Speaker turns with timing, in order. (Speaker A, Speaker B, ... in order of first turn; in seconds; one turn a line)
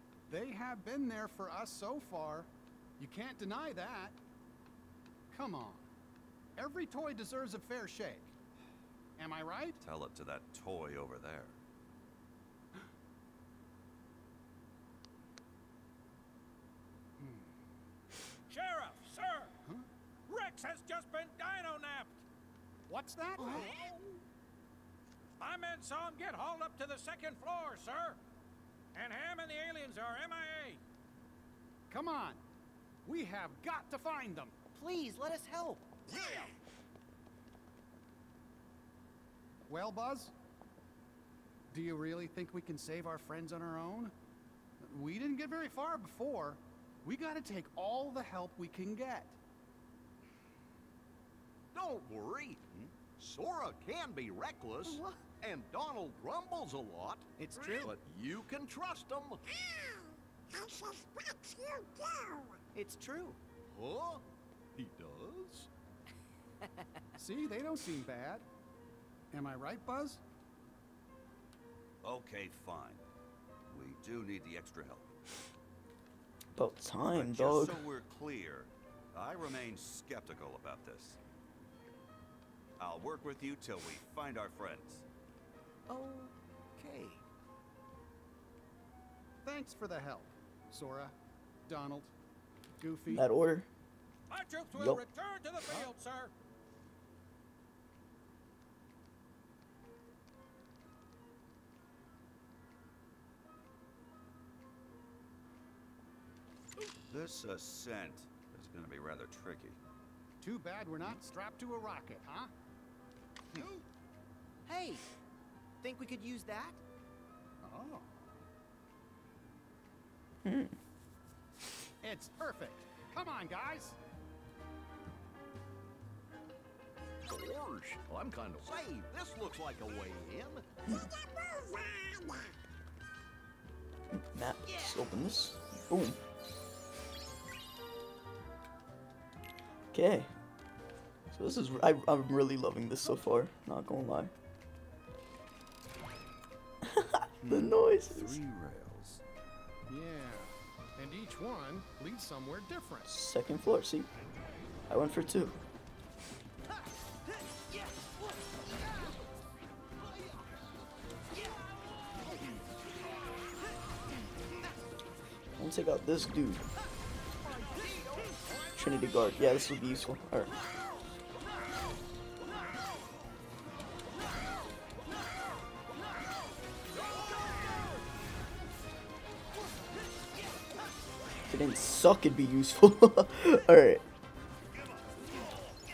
Speaker A: 0.3-4.2
Speaker A: 5.3-5.9
Speaker A: 6.5-8.3
Speaker A: 9.2-9.8
Speaker B: 9.8-11.6
Speaker A: 17.2-17.5
Speaker C: 18.5-19.5
Speaker C: 20.3-22.2
Speaker A: 22.9-23.7
Speaker D: 23.4-23.9
Speaker C: 25.4-28.2
Speaker C: 28.9-30.8
Speaker A: 31.9-32.4
Speaker A: 33.0-34.5
Speaker D: 34.7-36.5
Speaker A: 39.7-40.3
Speaker A: 41.7-44.1
Speaker A: 44.8-49.4
Speaker E: 51.7-52.6
Speaker E: 53.1-59.4
Speaker D: 54.9-55.2
Speaker D: 57.4-58.0
Speaker F: 60.5-62.5
Speaker D: 62.7-63.4
Speaker E: 63.7-64.2
Speaker E: 64.8-65.7
Speaker A: 67.2-68.5
Speaker A: 69.3-70.2
Speaker B: 72.0-73.0
Speaker B: 73.7-75.1
Speaker G: 76.5-77.8
Speaker B: 77.1-81.2
Speaker B: 82.8-85.0
Speaker D: 85.9-87.2
Speaker A: 89.4-91.1
Speaker A: 91.7-92.1
Speaker A: 92.8-93.2
Speaker G: 93.1-93.7
Speaker C: 94.3-96.3
Speaker G: 94.7-95.0
Speaker B: 107.1-109.8
Speaker A: 110.4-112.5
Speaker D: 114.7-115.0
Speaker D: 115.8-116.8
Speaker A: 117.6-118.3
Speaker G: 120.4-120.7
Speaker A: 122.0-124.0
Speaker E: 127.2-130.6
Speaker G: 134.1-136.2
Speaker G: 139.9-140.3
Speaker G: 141.3-144.3
Speaker G: 146.8-148.4
Speaker B: 147.4-149.2
Speaker A: 149.9-153.1
Speaker G: 153.1-154.1
Speaker G: 154.9-155.6
Speaker E: 159.9-160.5
Speaker E: 162.0-162.7
Speaker G: 165.6-166.6
Speaker E: 167.3-168.8
Speaker G: 168.7-170.5
Speaker G: 181.5-184.0
Speaker B: 184.8-185.1